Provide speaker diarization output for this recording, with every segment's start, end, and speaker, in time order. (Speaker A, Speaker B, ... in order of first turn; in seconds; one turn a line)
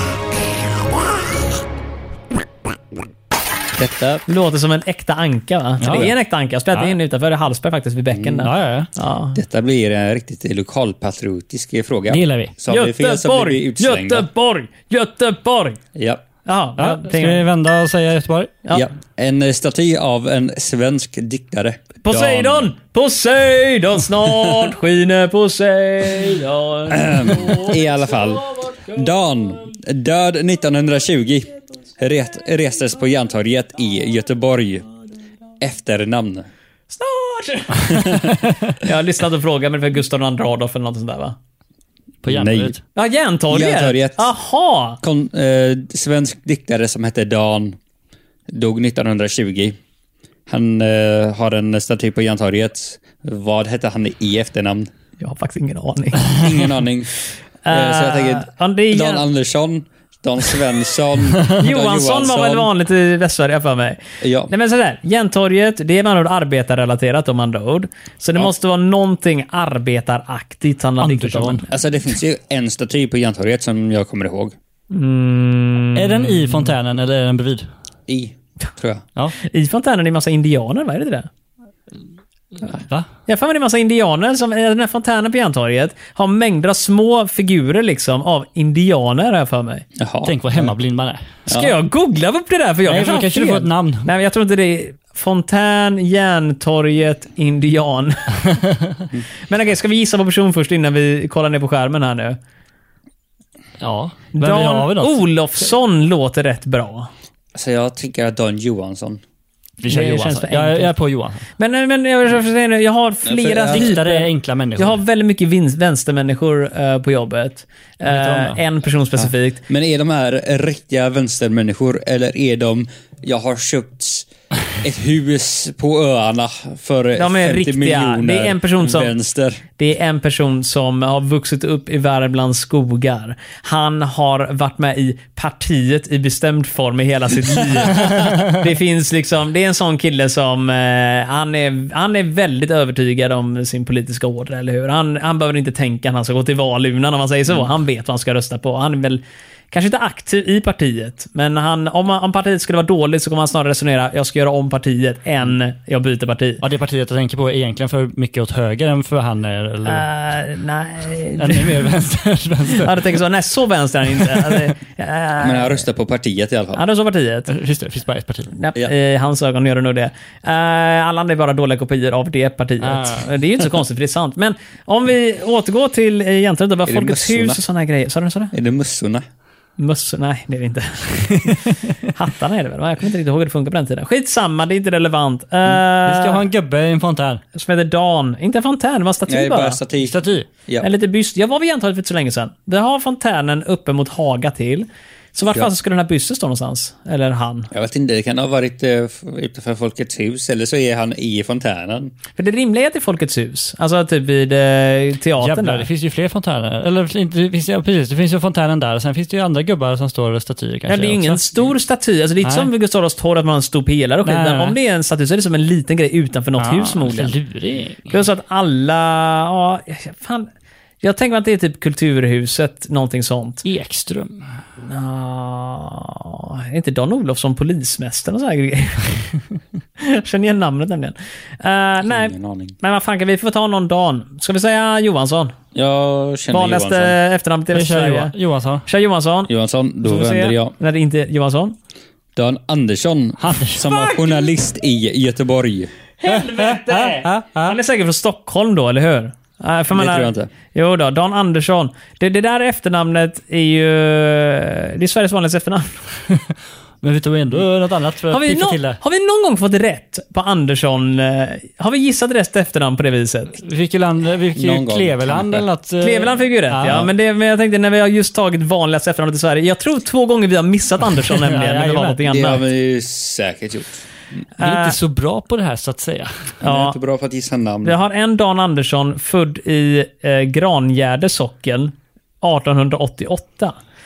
Speaker A: 3.8-4.2
Speaker B: 4.3-9.4
Speaker C: 5.8-6.1
Speaker A: 5.8-6.1
Speaker A: 8.1-8.5
Speaker C: 8.4-8.9
Speaker A: 9.3-14.3
Speaker C: 12.1-12.5
Speaker B: 12.7-15.8
Speaker A: 15.9-16.2
Speaker B: 16.4-17.5
Speaker C: 16.8-18.6
Speaker A: 18.7-22.7
Speaker B: 22.0-28.9
Speaker A: 24.2-24.7
Speaker A: 26.9-34.9
Speaker A: 35.6-36.5
Speaker B: 36.9-41.4
Speaker A: 37.9-38.4
Speaker C: 42.2-42.8
Speaker A: 42.3-42.7
Speaker B: 42.9-45.0
Speaker A: 43.5-44.3
Speaker A: 45.0-47.8
Speaker A: 48.5-49.8
Speaker A: 50.5-54.9
Speaker B: 55.2-56.4
Speaker A: 56.3-57.1
Speaker B: 57.6-59.2
Speaker A: 57.7-62.7
Speaker B: 61.6-71.7
Speaker A: 64.2-64.5
Speaker C: 71.0-71.6
Speaker A: 71.7-74.5
Speaker B: 74.9-76.7
Speaker C: 75.9-77.7
Speaker A: 78.1-79.0
Speaker B: 79.4-81.3
Speaker C: 82.7-83.1
Speaker B: 83.3-89.8
Speaker A: 90.0-90.7
Speaker C: 90.2-91.2
Speaker A: 91.5-91.8
Speaker B: 91.5-98.5
Speaker C: 92.8-94.1
Speaker B: 99.4-102.4
Speaker C: 103.8-105.2
Speaker B: 104.3-107.1
Speaker A: 107.5-109.2
Speaker C: 109.8-111.4
Speaker B: 109.9-110.9
Speaker B: 111.6-119.6
Speaker A: 113.2-114.0
Speaker C: 113.7-115.0
Speaker C: 118.0-118.6
Speaker A: 119.2-129.6
Speaker B: 127.2-129.1
Speaker B: 129.8-156.6
Speaker A: 137.5-137.9
Speaker C: 156.6-160.1
Speaker B: 159.8-161.8
Speaker C: 161.4-163.2
Speaker B: 162.8-165.8
Speaker C: 164.3-164.6
Speaker A: 165.4-166.8
Speaker B: 166.8-167.5
Speaker C: 167.5-168.5
Speaker B: 168.5-178.5
Speaker C: 172.8-173.3
Speaker A: 176.8-177.6
Speaker A: 178.5-179.2
Speaker B: 179.8-186.4
Speaker C: 186.0-187.4
Speaker B: 187.5-189.8
Speaker A: 189.3-190.9
Speaker C: 190.0-190.5
Speaker B: 190.8-197.7
Speaker A: 197.7-202.1
Speaker B: 202.3-205.8
Speaker C: 205.4-211.4
Speaker B: 210.9-217.3
Speaker C: 212.4-212.7
Speaker C: 214.2-214.8
Speaker C: 216.6-218.2
Speaker B: 218.1-220.5
Speaker B: 221.0-223.6
Speaker C: 223.6-224.4
Speaker B: 224.8-229.2
Speaker B: 230.0-235.5
Speaker A: 232.1-232.7
Speaker A: 235.7-237.2
Speaker B: 236.5-238.3
Speaker C: 237.7-238.8
Speaker B: 238.8-239.5
Speaker A: 239.5-240.7
Speaker B: 240.0-241.8
Speaker A: 242.3-245.9
Speaker C: 243.4-243.9
Speaker B: 243.9-244.4
Speaker B: 246.2-255.9
Speaker C: 246.3-247.8
Speaker A: 249.9-250.5
Speaker C: 257.0-259.0
Speaker B: 258.3-263.6
Speaker C: 263.6-267.1
Speaker A: 264.5-265.6
Speaker B: 266.0-272.6
Speaker C: 271.3-272.2
Speaker A: 272.2-274.1
Speaker B: 274.6-274.9
Speaker C: 274.6-276.5
Speaker B: 276.6-276.9
Speaker A: 276.6-278.0
Speaker B: 277.8-283.7